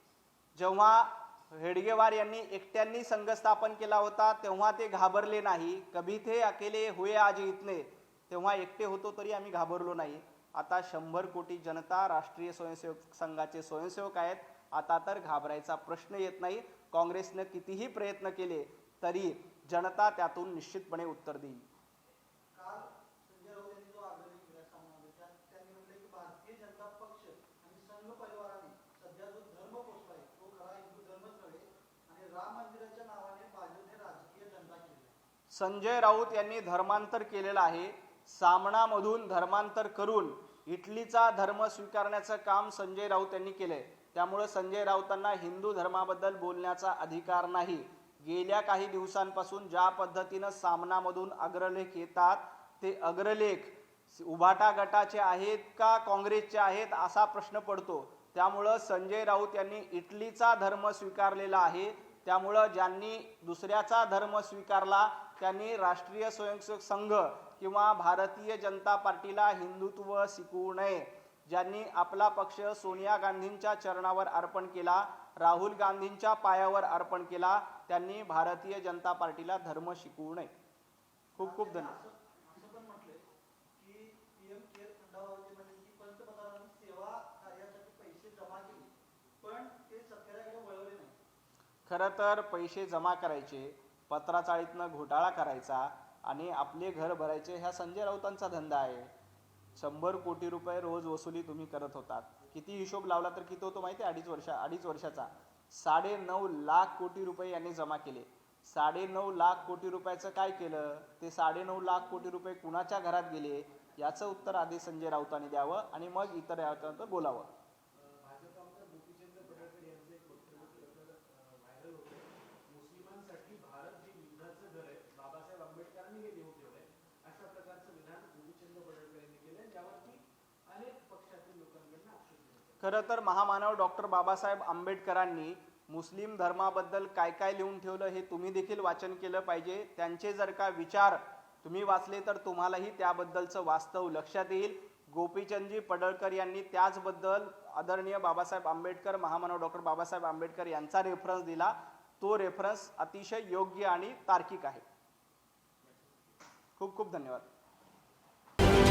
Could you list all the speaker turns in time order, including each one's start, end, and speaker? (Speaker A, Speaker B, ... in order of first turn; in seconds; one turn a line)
Speaker A: 0.6-21.6
Speaker B: 22.5-35.1
Speaker A: 35.5-80.5
Speaker A: 81.3-82.0
Speaker B: 81.4-83.2
Speaker B: 83.8-88.9
Speaker B: 89.4-91.2
Speaker A: 91.9-99.1
Speaker A: 99.8-117.5
Speaker C: 117.9-132.8
Speaker A: 132.8-154.8
Speaker A: 156.8-157.4